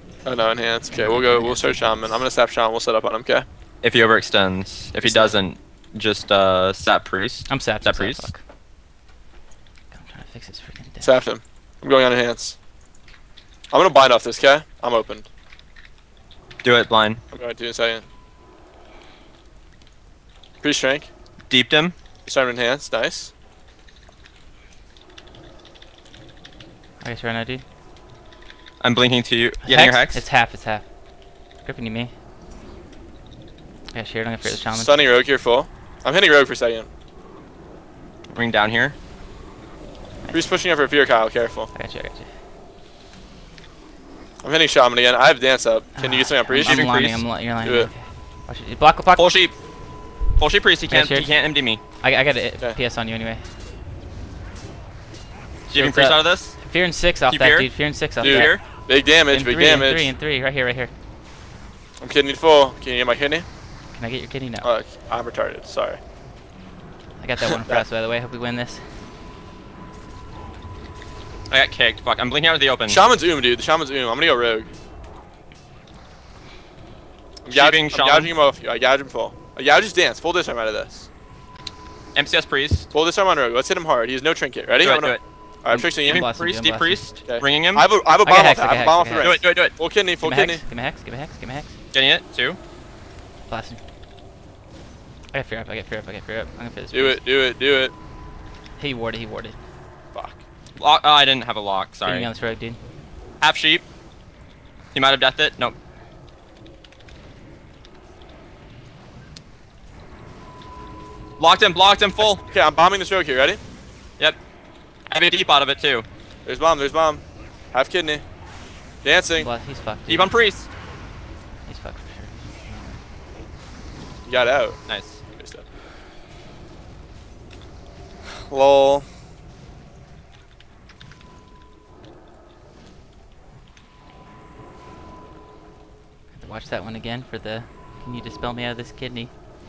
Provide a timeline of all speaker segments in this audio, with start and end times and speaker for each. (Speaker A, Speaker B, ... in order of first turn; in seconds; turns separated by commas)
Speaker A: 0.2-3.5, Speaker B: 0.9-2.2, Speaker C: 3.8-8.3, Speaker A: 5.0-5.4, Speaker B: 7.5-8.4, Speaker B: 9.9-11.2, Speaker A: 11.0-12.6, Speaker A: 13.7-15.3, Speaker C: 16.6-17.2, Speaker A: 17.3-18.1, Speaker A: 20.6-21.1, Speaker C: 21.5-21.9, Speaker A: 22.3-23.3, Speaker B: 27.0-27.6, Speaker C: 28.8-30.2, Speaker B: 29.6-30.9, Speaker B: 31.6-32.1, Speaker B: 33.9-35.0, Speaker A: 34.5-36.9, Speaker C: 38.3-39.0, Speaker A: 40.3-41.7, Speaker B: 41.7-42.3, Speaker A: 44.4-46.9, Speaker B: 46.0-49.3, Speaker C: 46.6-47.2, Speaker A: 47.6-47.9, Speaker C: 49.1-49.5, Speaker C: 50.4-51.8, Speaker B: 50.9-51.4, Speaker B: 52.0-53.5, Speaker C: 55.7-56.6, Speaker A: 55.8-56.2, Speaker B: 56.6-60.9, Speaker C: 57.3-58.6, Speaker A: 58.2-60.1, Speaker A: 62.0-63.5, Speaker B: 63.9-64.7, Speaker A: 64.6-66.0, Speaker B: 67.2-68.9, Speaker A: 67.4-67.8, Speaker C: 71.5-73.0, Speaker A: 72.9-74.7, Speaker A: 77.4-81.1, Speaker C: 77.5-78.3, Speaker C: 82.2-82.9, Speaker A: 82.9-86.3, Speaker C: 84.8-85.2, Speaker B: 85.7-87.2, Speaker C: 86.1-87.9, Speaker A: 87.2-90.6, Speaker B: 88.1-89.3, Speaker C: 89.2-89.8, Speaker B: 90.2-91.8, Speaker C: 91.9-92.6, Speaker B: 93.5-93.8, Speaker B: 95.3-97.2, Speaker A: 96.9-97.9, Speaker B: 98.8-99.6, Speaker A: 100.1-100.4, Speaker C: 100.8-102.3, Speaker B: 102.0-102.8, Speaker C: 103.4-103.8, Speaker C: 104.9-105.8, Speaker C: 111.4-112.4, Speaker A: 112.2-113.6, Speaker C: 115.1-116.1, Speaker A: 116.5-118.2, Speaker A: 119.0-119.5, Speaker B: 119.3-120.3, Speaker C: 120.1-120.7, Speaker B: 121.7-123.0, Speaker A: 124.2-124.8, Speaker C: 124.9-125.2, Speaker A: 125.4-125.7, Speaker A: 128.3-129.1, Speaker B: 136.3-139.3